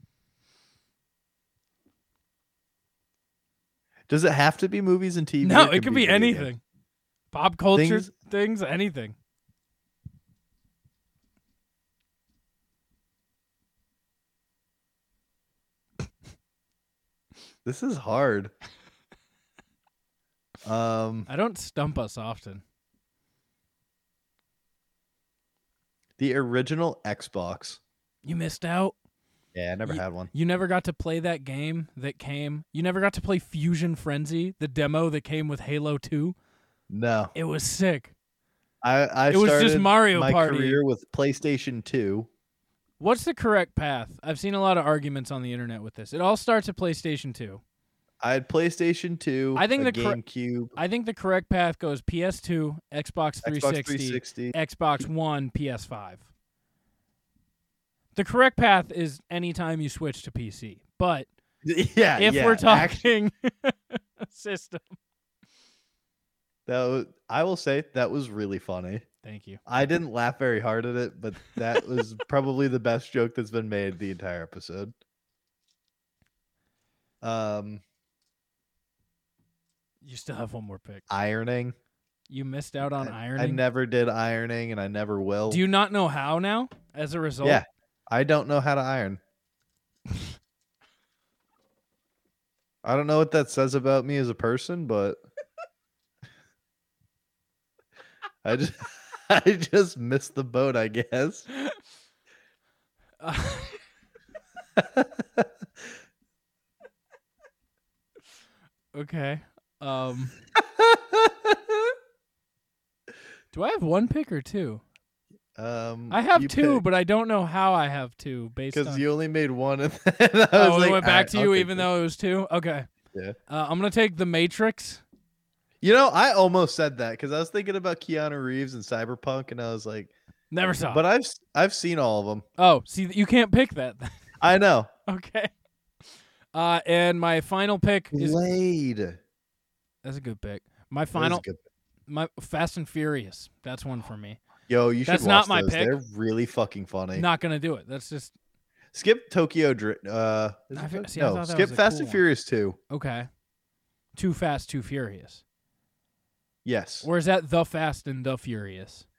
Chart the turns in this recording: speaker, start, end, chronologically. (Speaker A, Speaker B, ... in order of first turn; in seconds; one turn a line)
Speaker A: 4.1-6.5
Speaker B: 5.4-6.6
Speaker B: 7.3-9.1
Speaker A: 7.7-8.1
Speaker A: 17.6-18.5
Speaker A: 20.6-21.3
Speaker B: 21.3-22.6
Speaker A: 26.2-27.8
Speaker B: 28.2-28.9
Speaker A: 29.5-30.3
Speaker B: 29.9-36.3
Speaker A: 36.9-37.3
Speaker B: 37.3-38.1
Speaker A: 38.8-42.3
Speaker B: 39.3-40.8
Speaker B: 43.0-47.6
Speaker A: 48.2-50.7
Speaker B: 49.5-50.2
Speaker B: 50.8-56.3
Speaker A: 53.4-54.5
Speaker B: 58.1-61.3
Speaker A: 61.6-63.1
Speaker B: 62.2-65.0
Speaker A: 66.7-69.0
Speaker B: 69.2-69.6
Speaker A: 69.7-74.9
Speaker A: 77.2-77.8
Speaker B: 80.0-81.0
Speaker A: 81.1-81.7
Speaker B: 82.3-83.6
Speaker A: 82.8-85.6
Speaker B: 85.5-87.6
Speaker A: 87.4-89.2
Speaker A: 92.8-95.2
Speaker A: 98.4-101.5
Speaker B: 103.2-103.8
Speaker A: 104.8-105.5
Speaker B: 108.9-110.3
Speaker A: 110.6-111.6
Speaker B: 113.5-114.8
Speaker A: 115.6-116.8
Speaker B: 116.1-119.0
Speaker A: 118.7-121.9
Speaker B: 120.5-122.9
Speaker B: 123.5-125.0
Speaker A: 125.8-130.1
Speaker B: 130.5-131.0
Speaker A: 130.9-132.4
Speaker B: 132.6-134.1
Speaker A: 134.4-134.9
Speaker B: 135.1-135.5
Speaker B: 136.5-138.4
Speaker A: 138.1-139.2
Speaker B: 140.0-141.4
Speaker A: 141.1-141.6
Speaker B: 142.1-144.4
Speaker A: 144.7-147.2
Speaker B: 145.1-146.0
Speaker B: 147.1-148.3
Speaker A: 148.9-152.8
Speaker B: 150.7-152.2
Speaker B: 152.9-153.3
Speaker B: 154.2-155.4
Speaker A: 156.6-157.1
Speaker B: 157.0-159.1